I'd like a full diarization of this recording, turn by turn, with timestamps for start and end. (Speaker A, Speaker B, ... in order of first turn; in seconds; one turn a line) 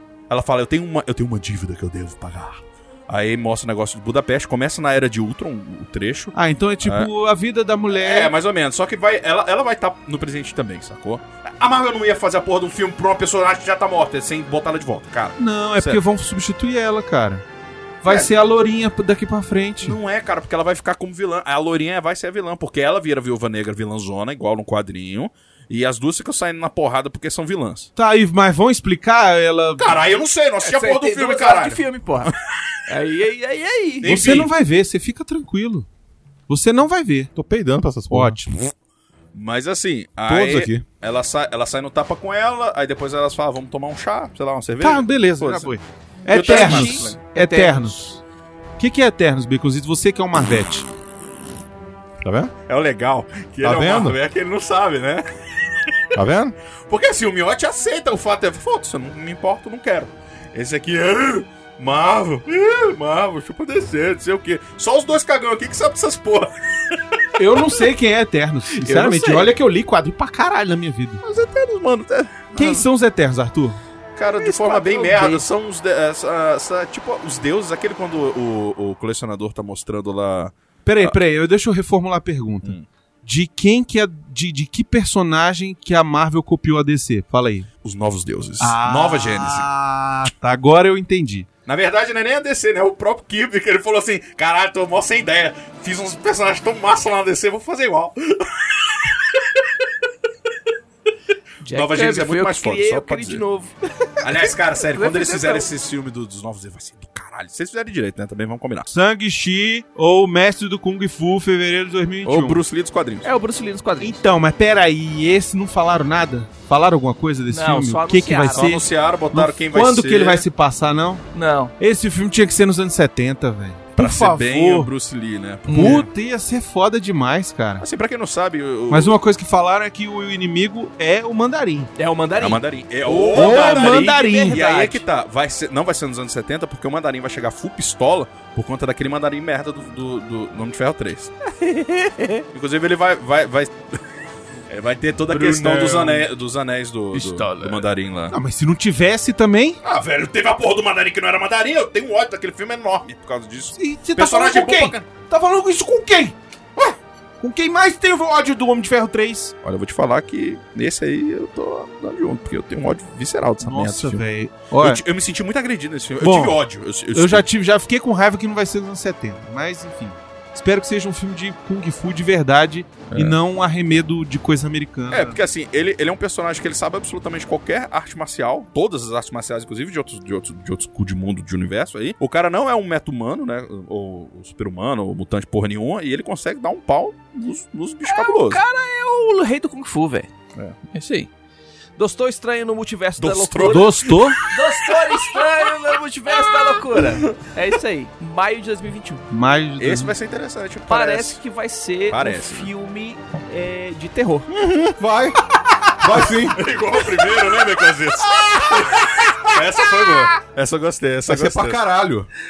Speaker A: 0.3-7.1
Speaker B: 6.3-8.3
Speaker A: 7.9-16.0
Speaker B: 15.4-17.4
Speaker B: 18.0-20.0
Speaker A: 19.8-27.9
Speaker B: 28.0-30.0
Speaker A: 29.8-32.6
Speaker C: 30.6-32.3
Speaker C: 32.9-34.2
Speaker A: 34.0-34.5
Speaker B: 34.0-35.9
Speaker B: 36.5-37.3
Speaker D: 37.4-38.4
Speaker B: 38.1-38.5
Speaker A: 39.3-45.7
Speaker D: 40.3-40.9
Speaker B: 44.8-48.2
Speaker A: 46.3-47.2
Speaker C: 46.3-48.0
Speaker B: 48.8-50.9
Speaker D: 52.2-52.5
Speaker A: 52.7-55.3
Speaker D: 53.6-54.2
Speaker D: 56.1-56.6
Speaker A: 56.9-67.2
Speaker B: 67.4-71.2
Speaker C: 68.8-69.4
Speaker A: 69.0-69.4
Speaker A: 71.2-72.8
Speaker B: 72.5-73.8
Speaker A: 74.2-81.2
Speaker C: 74.4-75.5
Speaker B: 80.8-87.7
Speaker A: 87.8-89.7
Speaker B: 88.6-91.5
Speaker A: 91.7-99.2
Speaker C: 101.6-105.7
Speaker A: 101.7-103.4
Speaker A: 104.2-108.9
Speaker B: 108.9-112.6
Speaker A: 112.2-113.3
Speaker C: 113.2-114.2
Speaker B: 114.0-121.2
Speaker C: 117.5-118.8
Speaker A: 118.5-120.4
Speaker C: 121.3-121.7
Speaker B: 121.8-124.9
Speaker A: 124.0-126.1
Speaker C: 125.7-126.1
Speaker B: 125.7-127.8
Speaker A: 127.8-129.2
Speaker B: 128.9-131.9
Speaker C: 132.0-135.0
Speaker A: 132.4-141.3
Speaker B: 133.3-134.6
Speaker C: 141.4-142.4
Speaker A: 142.5-143.8
Speaker A: 144.7-148.3
Speaker B: 145.3-146.2
Speaker C: 145.7-146.2
Speaker C: 147.1-147.8
Speaker B: 147.2-147.5
Speaker B: 148.3-149.8
Speaker A: 149.8-155.1
Speaker B: 153.8-156.3
Speaker B: 157.4-159.5
Speaker A: 159.6-164.2
Speaker B: 163.6-165.0
Speaker A: 164.8-167.4
Speaker B: 166.2-166.6
Speaker B: 167.1-175.4
Speaker A: 173.1-173.4
Speaker A: 175.1-188.6
Speaker C: 188.1-190.3
Speaker C: 190.9-191.3
Speaker C: 192.0-199.2
Speaker A: 193.2-195.4
Speaker B: 193.6-194.4
Speaker A: 196.7-197.2
Speaker B: 199.3-200.1
Speaker A: 199.8-201.4
Speaker C: 200.9-204.5
Speaker A: 202.1-202.7
Speaker D: 204.5-205.4
Speaker D: 205.9-206.6
Speaker A: 206.4-211.8
Speaker D: 211.3-212.3